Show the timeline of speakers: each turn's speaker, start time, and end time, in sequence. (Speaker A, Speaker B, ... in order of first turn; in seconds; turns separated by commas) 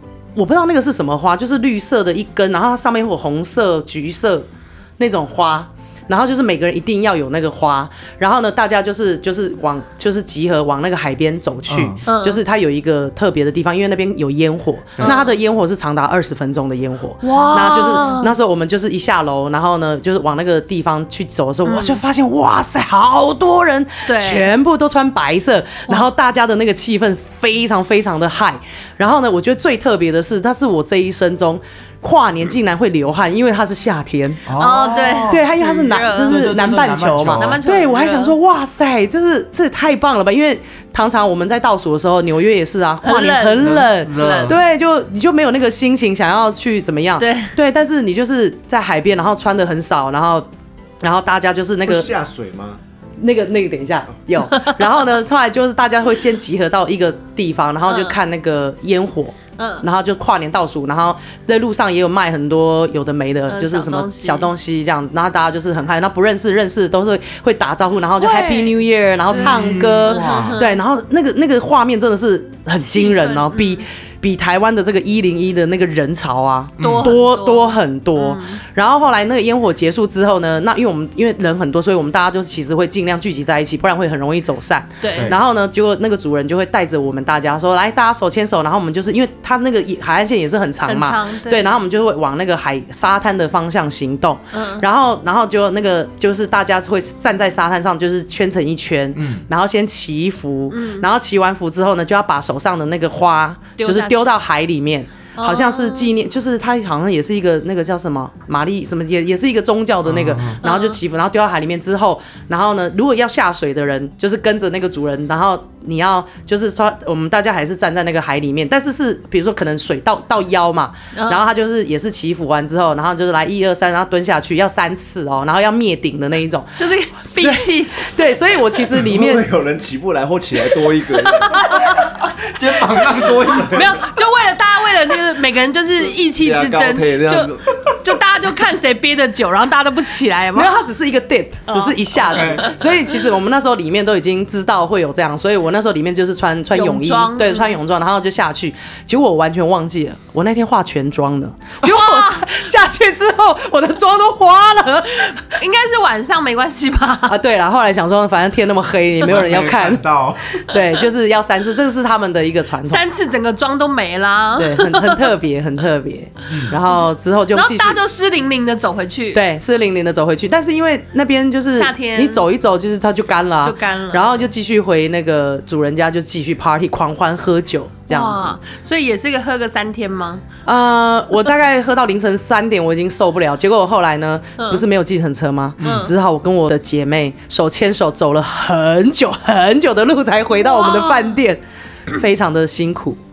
Speaker A: 0.3-4.5, Speaker A: 5.0-34.5, Speaker B: 11.7-12.0, Speaker C: 12.0-12.4, Speaker C: 15.0-15.4, Speaker C: 17.2-18.4, Speaker C: 21.6-22.0, Speaker C: 24.1-24.5, Speaker B: 34.5-35.5, Speaker C: 34.5-36.5, Speaker A: 35.2-50.5, Speaker B: 36.2-37.6, Speaker C: 37.3-38.4, Speaker C: 43.0-44.6, Speaker B: 43.6-44.6, Speaker C: 47.2-47.5, Speaker A: 51.0-52.1, Speaker D: 51.8-52.8, Speaker A: 53.2-129.5, Speaker C: 57.9-58.2, Speaker C: 59.6-59.8, Speaker C: 63.5-64.5, Speaker C: 68.2-70.8, Speaker B: 69.3-70.6, Speaker C: 72.8-73.8, Speaker B: 76.8-77.1, Speaker C: 76.8-78.6, Speaker C: 85.0-85.3, Speaker C: 90.8-91.7, Speaker C: 94.5-94.8, Speaker B: 99.1-99.5, Speaker C: 100.7-101.1, Speaker C: 103.8-104.3, Speaker C: 105.3-106.1, Speaker B: 110.0-110.6, Speaker C: 110.6-111.0, Speaker C: 121.1-121.4, Speaker C: 126.8-128.1, Speaker D: 129.0-131.8, Speaker C: 131.3-131.8, Speaker B: 131.6-134.0, Speaker D: 133.1-133.9, Speaker C: 133.7-140.8, Speaker D: 136.3-137.7, Speaker A: 140.5-155.6, Speaker C: 141.7-142.7, Speaker B: 142.3-142.7, Speaker C: 146.7-147.8, Speaker C: 151.8-152.4, Speaker C: 155.6-157.4, Speaker A: 157.3-160.1, Speaker B: 159.2-160.7, Speaker A: 160.7-163.0, Speaker C: 162.8-165.3, Speaker A: 164.6-168.0, Speaker B: 166.5-166.8, Speaker C: 166.9-169.4, Speaker A: 169.3-178.6, Speaker C: 171.7-172.4, Speaker C: 173.6-174.4, Speaker C: 178.1-180.4, Speaker A: 180.7-193.2, Speaker C: 184.6-184.8, Speaker B: 185.8-186.1, Speaker C: 185.8-186.1, Speaker C: 190.6-191.4